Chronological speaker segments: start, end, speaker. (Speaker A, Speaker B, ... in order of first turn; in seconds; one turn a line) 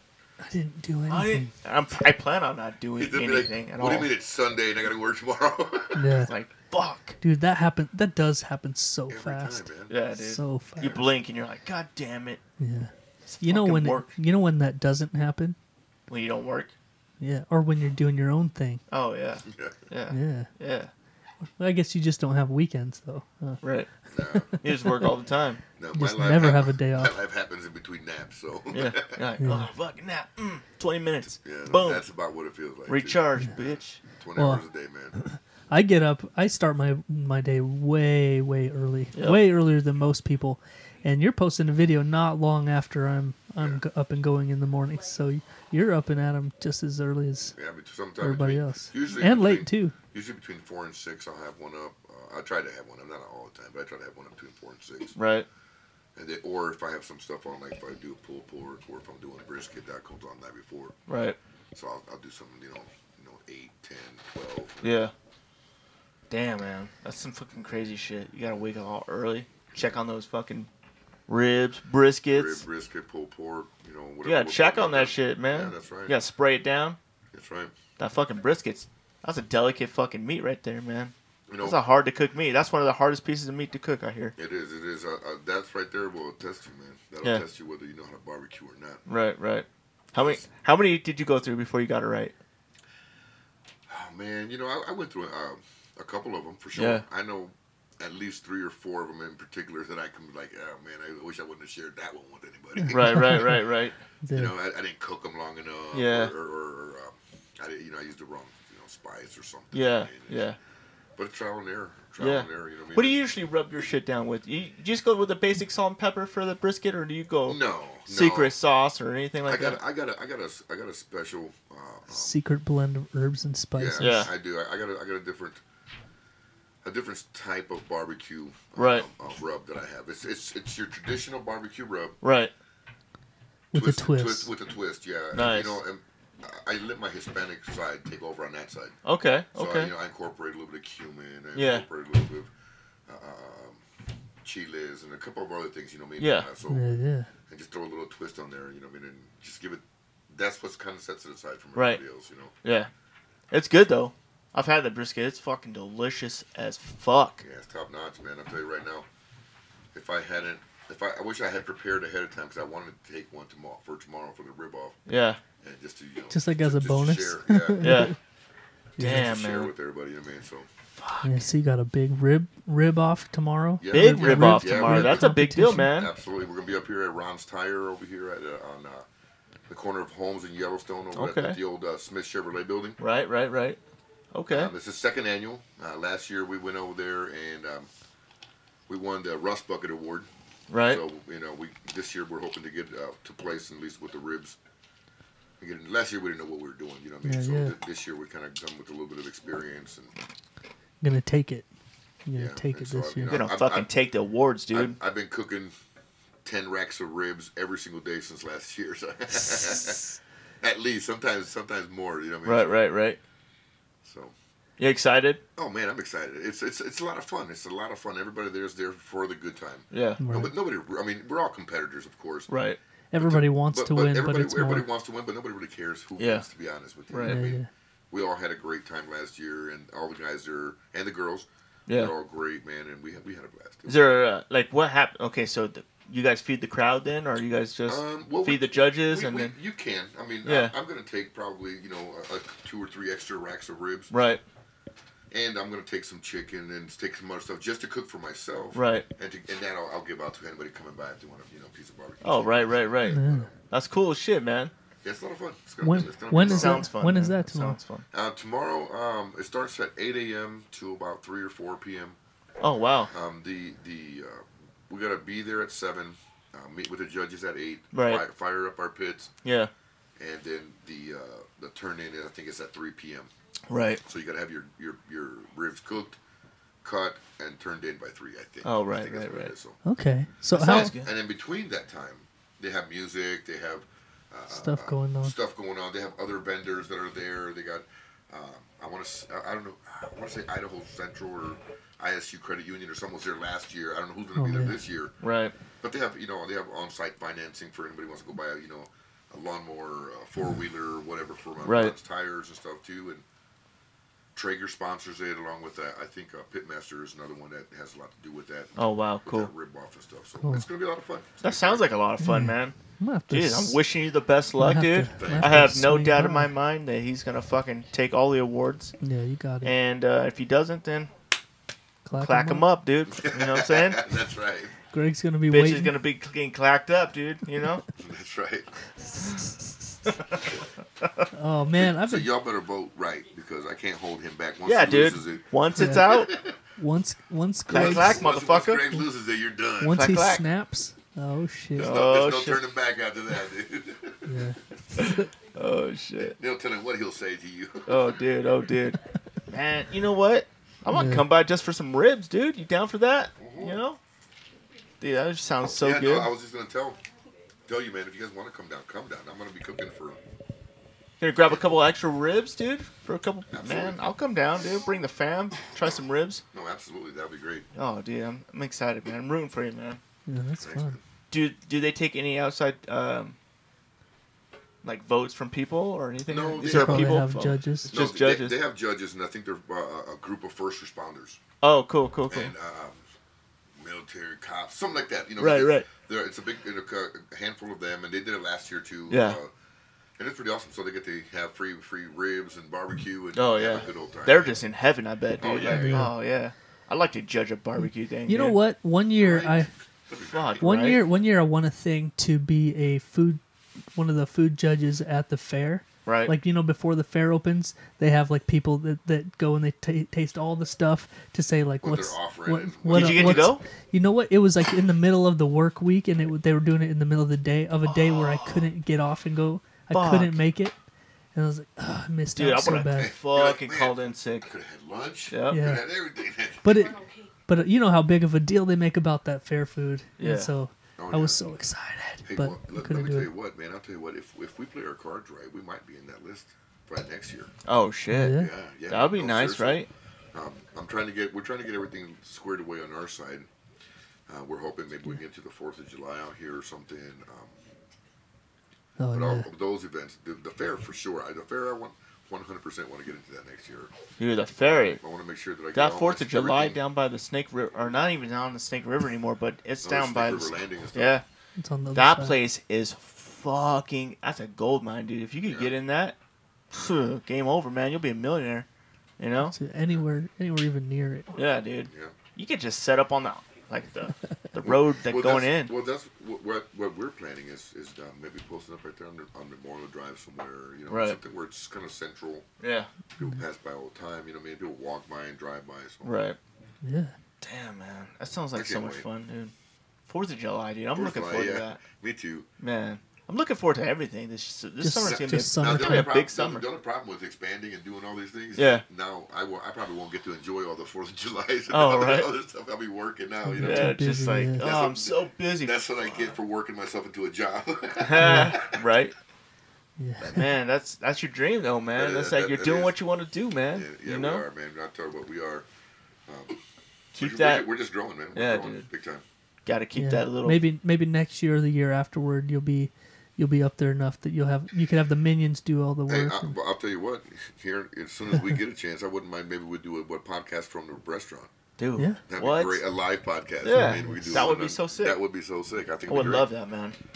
Speaker A: 0.4-1.5
Speaker B: 1.1-4.1
Speaker C: 3.0-6.1
Speaker A: 5.9-6.3
Speaker B: 6.2-7.2
Speaker A: 7.2-11.0
Speaker C: 9.1-9.9
Speaker B: 9.9-12.4
Speaker C: 10.8-11.0
Speaker A: 12.6-15.6
Speaker B: 13.3-14.1
Speaker B: 16.1-16.7
Speaker A: 17.2-18.8
Speaker B: 18.9-20.9
Speaker C: 19.5-19.8
Speaker A: 20.1-20.5
Speaker A: 21.5-23.6
Speaker B: 23.6-23.9
Speaker C: 24.1-24.6
Speaker A: 24.3-25.1
Speaker B: 24.6-25.6
Speaker C: 25.8-29.2
Speaker A: 25.9-27.1
Speaker B: 28.7-32.0
Speaker A: 29.4-29.7
Speaker C: 31.4-33.2
Speaker B: 32.9-34.0
Speaker C: 34.1-35.1
Speaker A: 34.4-34.6
Speaker A: 35.2-47.5
Speaker B: 39.1-39.4
Speaker C: 47.5-55.1
Speaker A: 48.2-49.9
Speaker B: 55.1-55.5
Speaker C: 56.1-61.0
Speaker B: 61.1-61.4
Speaker C: 61.7-65.0
Speaker B: 64.8-65.1
Speaker B: 66.3-70.7
Speaker C: 69.7-70.0
Speaker B: 71.3-72.6
Speaker C: 72.3-76.2
Speaker B: 74.2-77.0
Speaker C: 77.3-77.7
Speaker B: 78.0-84.3
Speaker C: 81.5-81.8
Speaker C: 84.3-89.0
Speaker B: 89.1-92.3
Speaker C: 90.1-90.4
Speaker C: 93.9-103.5
Speaker B: 96.7-97.0
Speaker A: 102.8-103.6
Speaker B: 102.9-103.9
Speaker A: 104.2-104.5
Speaker C: 104.3-110.5
Speaker B: 105.9-106.3
Speaker B: 109.7-110.6
Speaker C: 111.2-113.2
Speaker B: 112.2-119.8
Speaker C: 117.5-118.5
Speaker C: 119.5-122.4
Speaker A: 122.1-124.3
Speaker C: 123.7-125.6
Speaker B: 124.0-124.3
Speaker C: 126.8-132.2
Speaker B: 128.8-129.1
Speaker B: 132.2-132.5
Speaker A: 133.7-134.5
Speaker C: 133.7-138.9
Speaker B: 135.3-135.8
Speaker B: 139.0-139.9
Speaker C: 139.5-142.5
Speaker B: 141.5-141.8
Speaker C: 143.1-143.8
Speaker C: 144.4-146.8
Speaker B: 146.2-146.5
Speaker A: 146.7-147.3
Speaker C: 147.5-152.5
Speaker B: 151.7-152.0
Speaker B: 152.6-152.9
Speaker B: 153.5-157.4
Speaker C: 157.4-159.1
Speaker C: 159.9-165.0
Speaker B: 165.1-165.4
Speaker C: 165.6-168.1
Speaker A: 166.3-168.1
Speaker B: 167.8-168.1
Speaker A: 169.0-169.2
Speaker B: 169.0-169.7
Speaker C: 169.0-170.7
Speaker B: 171.0-171.3
Speaker A: 171.2-175.9
Speaker C: 173.8-179.0
Speaker B: 173.9-176.1
Speaker C: 179.7-183.0
Speaker B: 181.1-181.6
Speaker B: 183.0-183.8
Speaker B: 184.3-184.7
Speaker C: 184.5-187.9
Speaker C: 188.9-190.3
Speaker B: 190.7-191.0
Speaker C: 190.8-194.6
Speaker C: 195.6-200.1
Speaker A: 197.2-197.8
Speaker A: 201.0-201.7
Speaker A: 202.2-203.3
Speaker C: 202.3-203.9
Speaker B: 203.2-205.0
Speaker C: 204.7-205.7
Speaker C: 206.4-212.8
Speaker B: 212.4-213.2
Speaker C: 214.0-214.3
Speaker B: 214.8-215.4
Speaker C: 215.6-222.5
Speaker B: 219.9-220.2
Speaker A: 220.2-220.5
Speaker B: 222.5-222.8
Speaker A: 223.1-224.9
Speaker C: 223.2-234.1
Speaker B: 226.2-226.4
Speaker B: 227.1-227.4
Speaker A: 227.2-227.7
Speaker B: 231.9-232.1
Speaker B: 233.9-239.6
Speaker C: 237.9-244.1
Speaker B: 240.4-240.7
Speaker B: 244.1-244.4
Speaker C: 245.3-253.5
Speaker B: 248.7-249.1
Speaker B: 252.2-254.7
Speaker A: 253.1-253.5
Speaker C: 255.0-256.9
Speaker A: 255.8-257.8
Speaker B: 256.3-258.0
Speaker C: 258.1-262.2
Speaker B: 262.6-263.1
Speaker C: 263.1-269.3
Speaker B: 267.9-268.2
Speaker B: 269.4-269.7
Speaker C: 270.2-273.3
Speaker B: 273.7-274.0
Speaker C: 274.0-276.2
Speaker C: 276.8-279.8
Speaker B: 278.6-279.5
Speaker A: 279.8-280.9
Speaker B: 280.5-281.1
Speaker C: 280.5-295.1
Speaker A: 284.5-285.3
Speaker A: 294.4-294.8
Speaker B: 295.2-295.5
Speaker C: 295.8-303.2
Speaker B: 301.6-301.9
Speaker C: 304.3-311.9
Speaker B: 308.8-309.5
Speaker B: 311.4-312.8
Speaker A: 312.2-313.8
Speaker B: 313.3-318.9
Speaker A: 314.6-316.5
Speaker C: 315.2-315.6
Speaker A: 319.0-319.7
Speaker B: 319.6-321.1
Speaker A: 322.0-322.7
Speaker B: 322.2-324.1
Speaker C: 323.2-324.7
Speaker A: 324.9-325.9
Speaker B: 325.5-327.8
Speaker C: 328.0-328.7
Speaker A: 329.1-330.0
Speaker A: 331.3-332.3
Speaker C: 331.7-336.6
Speaker B: 334.6-336.3
Speaker A: 335.8-338.2
Speaker B: 337.7-338.9
Speaker C: 337.7-340.1
Speaker A: 339.8-341.9
Speaker B: 339.9-340.4
Speaker B: 341.8-342.6
Speaker C: 341.8-344.3
Speaker A: 344.2-345.3
Speaker B: 345.0-346.4
Speaker C: 346.2-348.1
Speaker B: 347.9-354.0
Speaker A: 350.9-351.3
Speaker C: 353.4-353.8
Speaker B: 355.0-356.3
Speaker C: 355.7-357.0
Speaker C: 357.6-360.2
Speaker B: 361.2-366.4
Speaker C: 363.5-364.0
Speaker C: 366.5-367.7
Speaker B: 367.7-370.0
Speaker A: 370.3-371.0
Speaker C: 370.6-371.0
Speaker B: 371.3-373.4
Speaker B: 374.8-378.6
Speaker C: 376.3-377.1
Speaker A: 376.7-377.9
Speaker C: 377.9-381.4
Speaker B: 381.6-382.5
Speaker C: 382.3-383.0
Speaker C: 383.8-389.5
Speaker B: 385.4-385.9
Speaker B: 389.1-389.4
Speaker C: 390.2-394.6
Speaker B: 393.3-398.6
Speaker C: 395.4-396.1
Speaker A: 395.6-396.1
Speaker A: 398.3-399.7
Speaker C: 399.2-401.0
Speaker B: 400.3-401.0
Speaker A: 400.6-403.4
Speaker A: 403.9-420.7
Speaker B: 406.1-406.3
Speaker C: 411.8-413.5
Speaker B: 412.9-413.6
Speaker B: 419.9-420.4
Speaker A: 421.3-423.1
Speaker B: 422.3-424.5
Speaker C: 423.0-426.8
Speaker B: 425.3-425.6
Speaker A: 425.5-425.8
Speaker A: 426.6-433.3
Speaker B: 430.2-430.5
Speaker C: 431.0-431.5
Speaker C: 432.2-437.5
Speaker B: 437.6-439.9
Speaker A: 438.1-438.5
Speaker C: 438.3-443.5
Speaker C: 444.3-447.6
Speaker A: 449.0-449.5
Speaker C: 449.1-453.9
Speaker B: 454.2-455.0
Speaker C: 455.0-456.8
Speaker B: 455.7-461.2
Speaker C: 459.8-461.2
Speaker A: 461.6-462.4
Speaker B: 461.9-466.2
Speaker C: 465.4-465.8
Speaker B: 466.7-468.6
Speaker B: 469.2-469.5
Speaker A: 469.4-471.4
Speaker B: 471.4-475.7
Speaker C: 471.9-472.1
Speaker C: 474.6-482.4
Speaker B: 480.9-481.2
Speaker B: 482.6-482.9
Speaker C: 483.2-486.2
Speaker B: 486.0-486.4
Speaker A: 486.8-487.1
Speaker B: 487.4-489.5
Speaker C: 488.5-489.1
Speaker B: 490.1-491.8
Speaker C: 490.9-492.4
Speaker B: 492.6-496.6
Speaker A: 494.8-496.1
Speaker C: 495.0-503.9
Speaker B: 498.6-498.8
Speaker B: 501.7-502.3
Speaker A: 503.4-504.7
Speaker B: 503.6-505.8
Speaker C: 504.6-508.8
Speaker B: 508.0-509.1
Speaker A: 508.2-508.5
Speaker A: 510.0-510.4
Speaker B: 510.3-514.4
Speaker C: 511.9-513.0
Speaker C: 513.7-515.6
Speaker C: 516.3-516.6
Speaker B: 517.1-517.7
Speaker C: 517.1-519.2
Speaker B: 518.3-518.9
Speaker B: 519.6-520.6
Speaker A: 520.0-526.5
Speaker C: 526.1-531.5
Speaker B: 531.8-532.8
Speaker C: 532.3-536.5
Speaker B: 533.6-535.2
Speaker A: 533.7-534.5
Speaker B: 536.1-537.0